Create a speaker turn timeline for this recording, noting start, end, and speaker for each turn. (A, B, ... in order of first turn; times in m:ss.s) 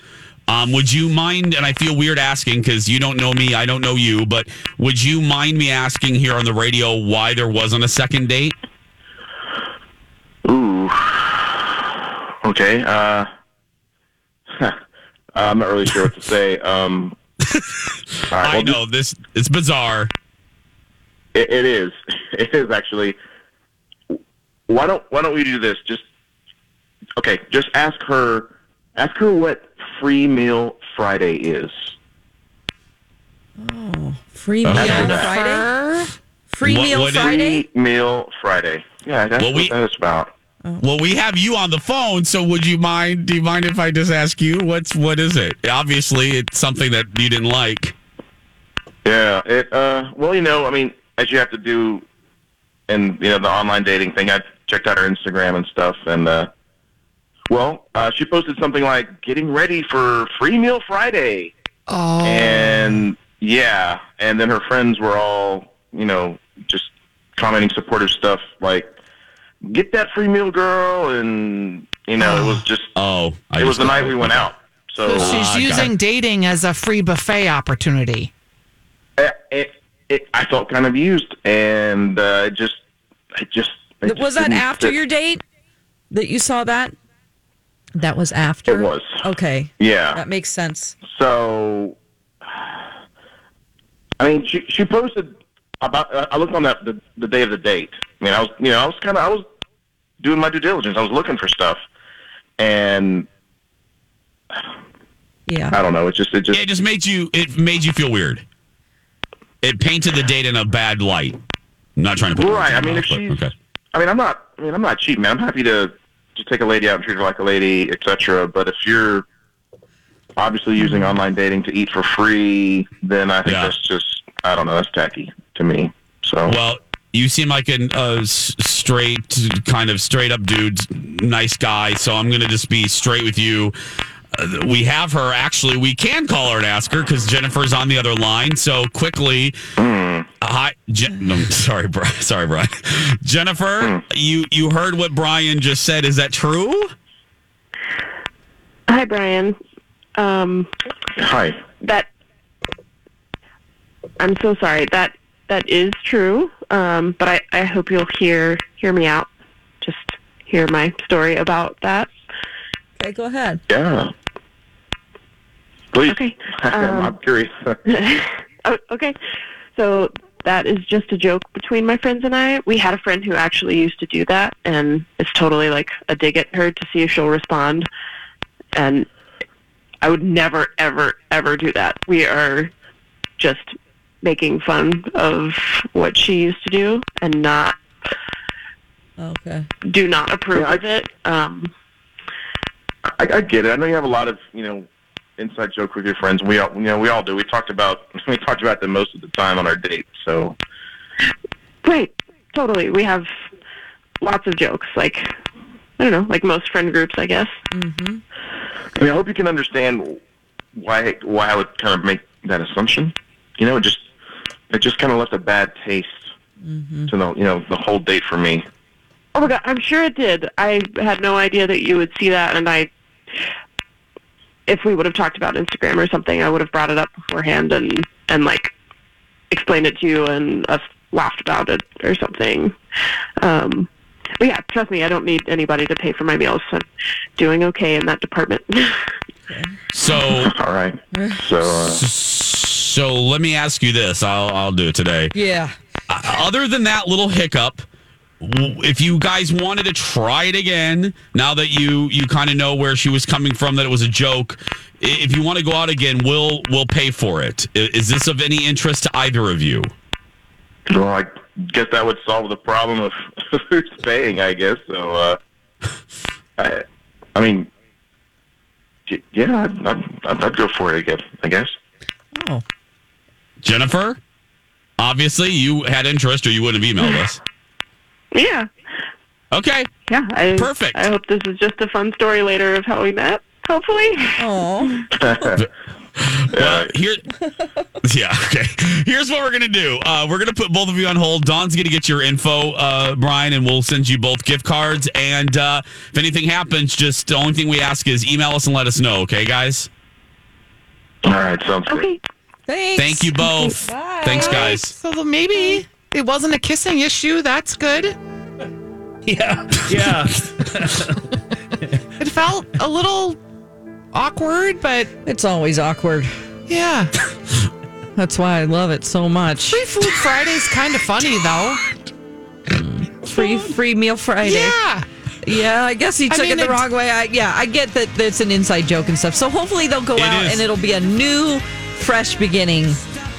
0:00.5-0:08.6 A
0:10.4-0:13.3 B
0:15.3-0:17.2 B
0:18.3-0:18.8 B
0:18.4-0:20.1 A
0:21.3-0:23.2 B
0:24.7-0:26.0 B
0:27.2-0:31.9 B
0:33.6-0:35.7 C
0:34.6-0:35.3 A
0:34.7-0:35.3 B
0:34.8-0:36.1 D
0:36.5-0:37.6 C
0:36.6-0:37.4 A
0:37.2-0:40.3 B
0:39.4-0:39.7 A
0:40.8-0:47.9 A
0:49.0-0:52.0 B
0:52.9-0:56.5 B
0:57.5-1:01.5 B
1:01.9-1:03.0 D
1:02.2-1:08.9 B
1:09.6-1:12.9 B
1:12.2-1:12.6 D
1:13.0-1:14.5 A
1:13.6-1:15.8 B
1:15.0-1:18.3 D
1:15.2-1:15.9 A
1:19.2-1:22.8 B
1:23.4-1:25.0 B
1:24.0-1:25.4 C
1:26.1-1:27.0 C
1:28.0-1:30.9 C
1:28.7-1:29.2 B
1:29.8-1:30.2 B
1:31.0-1:32.0 B
1:32.5-1:32.8 B
1:34.2-1:39.4 B
1:40.2-1:41.8 B
1:42.6-1:43.3 B
1:45.5-1:45.8 C
1:45.7-1:46.6 B
1:46.5-1:48.4 A
1:49.6-1:51.4 A
1:52.0-1:53.5 A
1:52.3-1:59.2 B
2:00.4-2:06.6 B
2:03.4-2:03.7 A
2:06.5-2:13.7 A
2:14.3-2:19.6 A
2:19.8-2:20.3 B
2:20.4-2:26.9 A
2:28.9-2:29.6 E
2:30.2-2:30.7 E
2:31.2-2:31.6 B
2:31.8-2:32.1 E
2:34.2-2:39.3 E
2:39.8-2:42.1 E
2:43.0-2:43.6 C
2:43.7-2:44.1 B
2:45.9-2:47.8 B
2:46.1-2:47.1 E
2:47.8-2:49.2 E
2:49.8-2:57.9 E
2:58.7-2:59.1 E
3:00.0-3:02.7 E
3:03.4-3:07.8 E
3:09.2-3:09.7 C
3:09.9-3:11.7 E
3:10.5-3:10.8 B
3:13.2-3:14.9 B
3:15.4-3:20.6 B
3:21.8-3:23.3 E
3:24.2-3:25.3 E
3:26.0-3:27.6 E
3:27.7-3:28.2 C
3:29.0-3:30.2 B
3:30.8-3:34.1 B
3:34.7-3:36.3 B
3:36.6-3:37.1 C
3:37.1-3:38.6 B
3:39.3-3:42.9 E
3:44.7-3:48.7 E
3:49.5-3:52.8 E
3:53.4-3:59.1 E
3:59.5-3:59.8 C
3:59.9-4:00.5 A
4:00.1-4:02.0 B
4:01.1-4:01.4 C
4:01.7-4:05.3 A
4:05.3-4:05.7 C
4:06.1-4:07.8 A
4:08.4-4:19.9 A
4:20.9-4:25.4 B
4:26.6-4:26.8 B
4:27.3-4:27.7 B
4:29.1-4:31.8 B
4:32.3-4:32.6 C
4:33.6-4:34.2 A
4:35.0-4:37.4 A
4:38.3-4:38.7 E
4:39.5-4:39.9 A
4:40.1-4:44.5 E
4:40.5-4:41.0 A
4:44.4-4:45.0 C
4:45.1-4:45.6 B
4:45.5-4:47.2 A
4:46.5-4:46.9 B
4:48.0-4:59.9 A
5:01.2-5:02.0 B
5:01.9-5:02.2 E
5:02.7-5:04.8 C
5:03.0-5:04.9 A
5:04.4-5:08.2 D
5:09.2-5:11.3 F
5:12.2-5:13.4 D
5:14.1-5:15.1 D
5:15.2-5:16.3 C
5:16.7-5:17.1 D
5:18.2-5:19.8 C
5:19.7-5:21.8 D
5:22.7-5:24.8 C
5:23.4-5:23.7 D
5:24.4-5:25.0 D
5:25.4-5:33.0 C
5:26.3-5:26.8 D
5:30.2-5:30.6 A